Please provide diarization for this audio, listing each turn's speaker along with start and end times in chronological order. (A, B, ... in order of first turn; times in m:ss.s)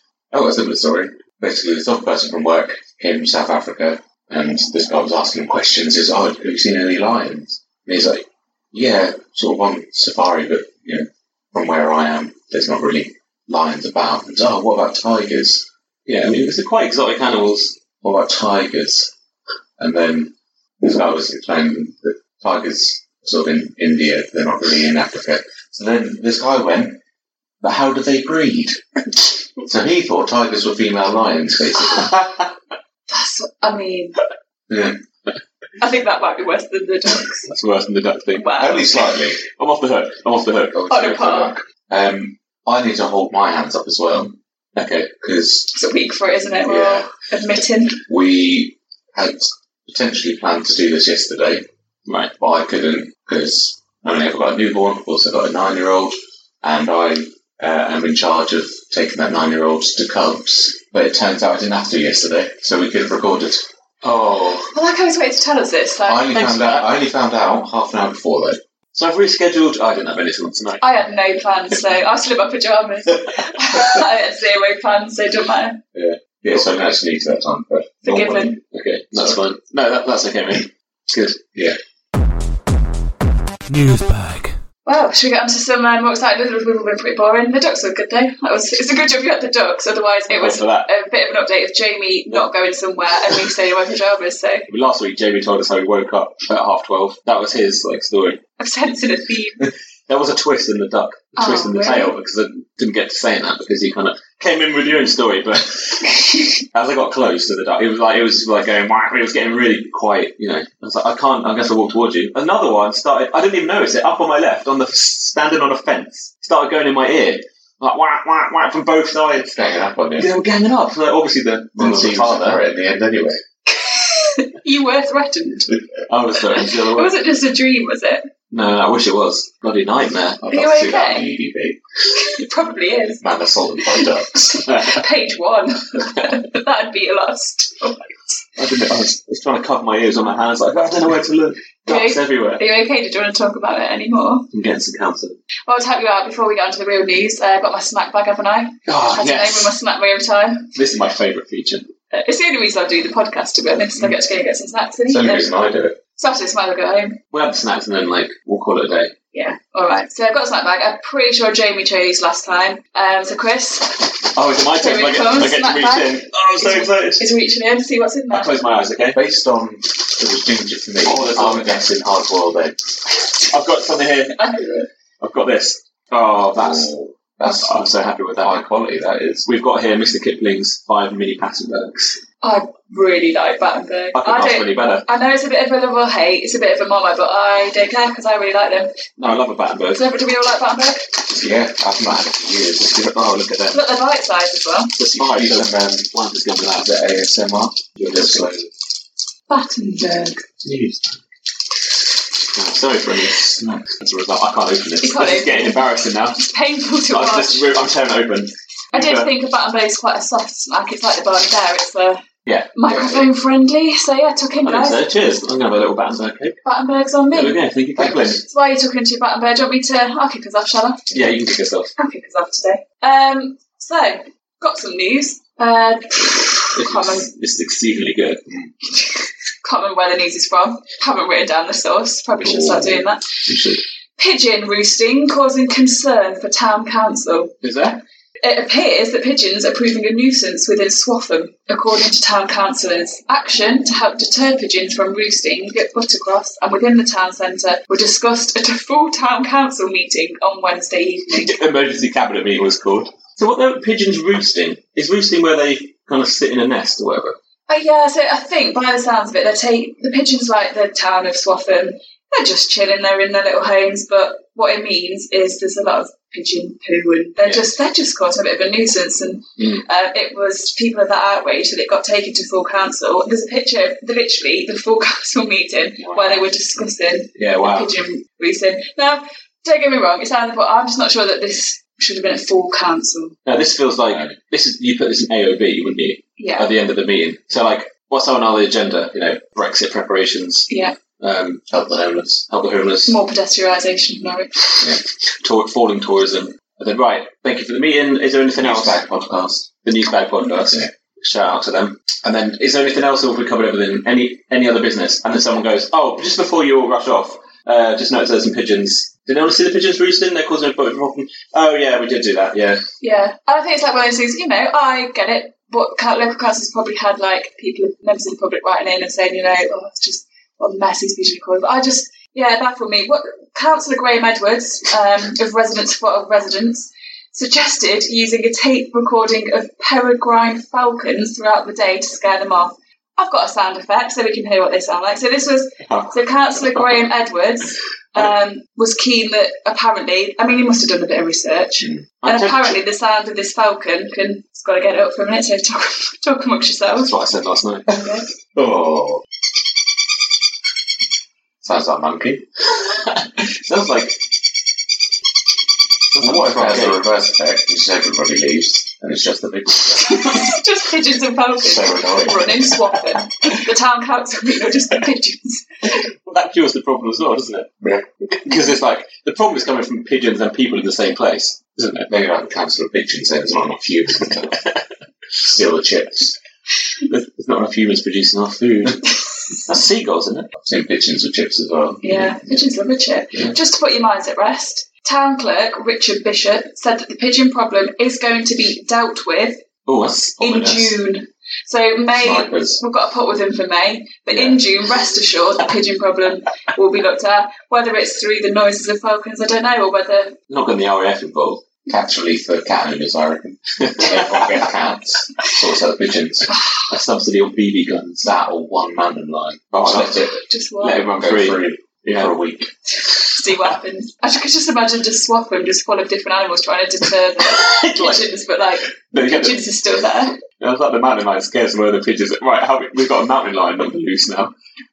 0:00.3-0:15.6 A
0:16.1-0:17.7 B
0:18.0-0:19.1 A
0:19.8-0:27.0 A
0:27.6-0:28.8 A
0:29.6-0:32.2 A
0:32.0-0:32.4 B
0:33.1-0:34.2 C
0:34.7-0:35.0 A
0:35.8-0:37.5 C
0:37.5-0:38.6 B
0:38.3-0:39.1 C
0:38.6-0:39.4 A
0:39.4-0:40.8 B
0:40.7-0:44.3 A
0:40.9-0:41.5 C
0:44.8-0:45.1 B
0:45.2-0:45.7 A
0:45.7-0:48.0 C
0:46.6-0:47.1 A
0:48.1-0:51.6 A
0:52.1-0:52.3 B
0:52.4-1:03.6 A
1:04.0-1:04.7 B
1:04.7-1:06.3 C
1:06.1-1:08.6 A
1:06.3-1:06.9 B
1:08.9-1:10.8 B
1:10.8-1:15.8 C
1:15.9-1:18.5 A
1:18.0-1:18.6 C
1:18.7-1:21.4 B
1:23.7-1:24.5 B
1:24.8-1:34.7 C
1:30.3-1:30.9 B
1:34.7-1:38.4 B
1:38.6-1:39.7 C
1:40.1-1:59.6 B
1:41.4-1:42.1 C
1:59.4-2:00.3 A
2:00.2-2:02.6 B
2:01.8-2:03.4 A
2:03.6-2:05.8 C
2:06.1-2:07.2 B
2:06.5-2:08.3 C
2:08.5-2:10.4 B
2:10.4-2:11.8 A
2:10.5-2:11.3 C
2:12.1-2:13.2 C
2:13.2-2:14.7 A
2:13.9-2:18.4 C
2:14.7-2:15.0 B
2:18.6-2:22.6 B
2:21.8-2:24.4 C
2:24.5-2:25.4 B
2:25.7-2:30.7 C
2:28.9-2:29.7 B
2:30.7-2:31.9 B
2:32.1-2:35.5 C
2:35.1-2:36.0 A
2:36.2-2:37.2 C
2:37.3-2:39.1 B
2:39.3-2:44.1 C
2:44.3-2:47.2 B
2:44.7-2:48.6 C
2:48.3-2:49.2 B
2:49.1-2:52.8 A
2:51.0-2:51.8 B
2:53.2-2:54.4 B
2:54.3-2:54.9 C
2:55.2-2:56.9 B
2:56.5-2:57.7 A
2:57.4-2:58.6 B
2:58.4-2:59.5 A
2:59.4-3:02.2 B
3:02.4-3:08.9 C
3:04.1-3:05.0 B
3:09.2-3:10.0 B
3:09.9-3:11.1 C
3:11.3-3:13.0 A
3:12.8-3:13.8 B
3:13.7-3:15.0 C
3:15.0-3:16.9 B
3:15.2-3:16.1 A
3:16.8-3:18.7 A
3:18.0-3:18.7 B
3:19.5-3:20.4 C
3:20.6-3:21.1 B
3:22.5-3:26.4 B
3:23.5-3:23.8 A
3:25.0-3:27.7 C
3:27.1-3:29.3 B
3:28.9-3:32.2 C
3:32.4-3:33.3 B
3:32.7-3:35.0 C
3:34.6-3:36.6 B
3:36.6-3:37.6 C
3:37.3-3:38.4 B
3:38.0-3:38.4 A
3:38.4-3:41.1 C
3:41.1-3:41.9 B
3:42.0-3:47.3 C
3:46.7-3:48.4 B
3:49.6-3:53.3 C
3:52.6-3:52.9 A
3:53.4-3:53.8 B
3:54.2-3:57.6 C
3:57.6-3:58.0 B
3:58.4-4:11.5 C
4:11.3-4:17.4 B
4:17.7-4:43.4 C
4:29.6-4:29.8 B
4:36.0-4:36.4 B
4:37.4-4:37.9 B
4:43.4-4:51.6 B
4:44.0-4:44.4 A
4:46.4-4:46.7 C
4:50.7-4:50.9 C
4:51.7-4:52.4 A
4:52.5-4:53.2 B
4:53.0-4:54.7 C
4:55.4-4:59.0 B
4:58.6-4:59.7 A
4:59.8-5:12.8 B
5:00.6-5:00.9 A
5:13.0-5:47.1 C
5:42.2-5:42.8 B
5:47.0-5:47.9 B
5:47.9-5:48.2 C
5:48.5-5:49.2 A
5:51.6-5:52.4 A
5:52.7-5:54.2 B
5:56.1-5:57.0 B
5:56.2-6:00.4 A
6:00.0-6:06.0 C
6:01.6-6:02.7 A
6:06.2-6:07.7 B
6:07.8-6:08.0 A
6:08.3-6:12.1 B
6:12.1-6:14.6 A
6:15.4-6:16.4 A
6:17.0-6:20.5 B
6:20.6-6:22.5 A
6:22.0-6:29.6 C
6:29.8-6:31.0 B
6:30.4-6:40.4 C
6:32.1-6:32.8 A
6:40.5-6:41.6 B
6:41.9-6:46.5 A
6:43.8-6:44.7 B
6:46.9-6:48.3 B
6:48.2-6:50.3 A
6:49.7-6:50.3 B
6:50.3-6:51.1 C
6:50.8-6:52.3 B
6:51.2-6:52.7 A
6:53.1-7:00.4 C
6:57.4-6:58.2 B
6:59.1-6:59.6 B
7:00.6-7:04.5 B